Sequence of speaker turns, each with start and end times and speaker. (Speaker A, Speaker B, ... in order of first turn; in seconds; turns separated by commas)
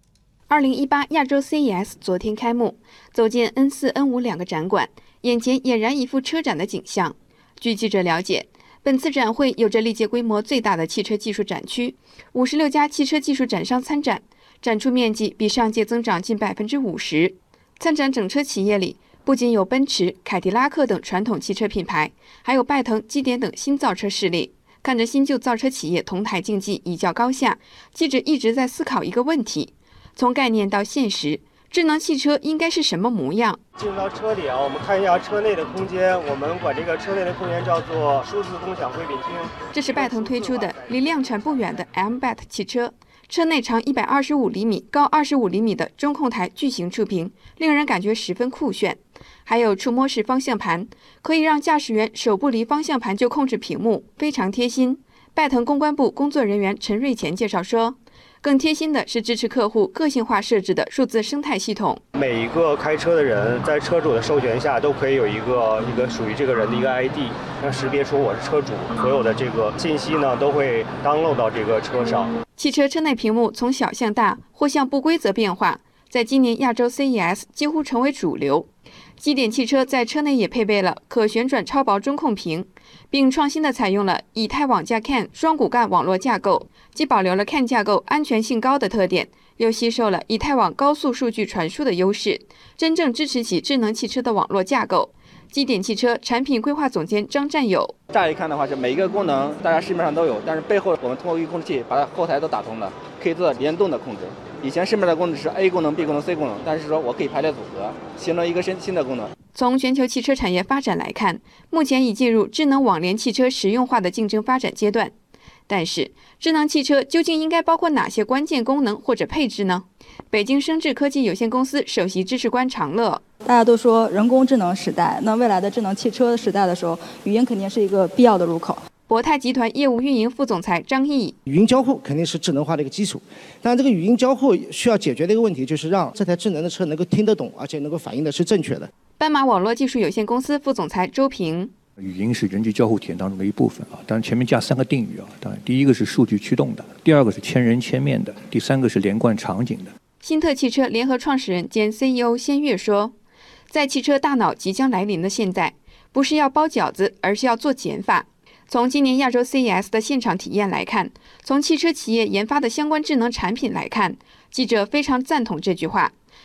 Speaker A: 0.5-33.6, Speaker B: 33.8-41.8, Speaker A: 39.7-62.0, Speaker B: 62.1-72.3, Speaker A: 72.6-98.0, Speaker C: 98.1-109.3, Speaker A: 109.5-115.1, Speaker A: 115.7-123.2, Speaker D: 123.4-128.8, Speaker A: 129.1-131.3, Speaker E: 131.4-138.9, Speaker A: 139.2-141.7, Speaker F: 142.0-149.9, Speaker A: 150.2-153.1, Speaker A: 153.7-166.1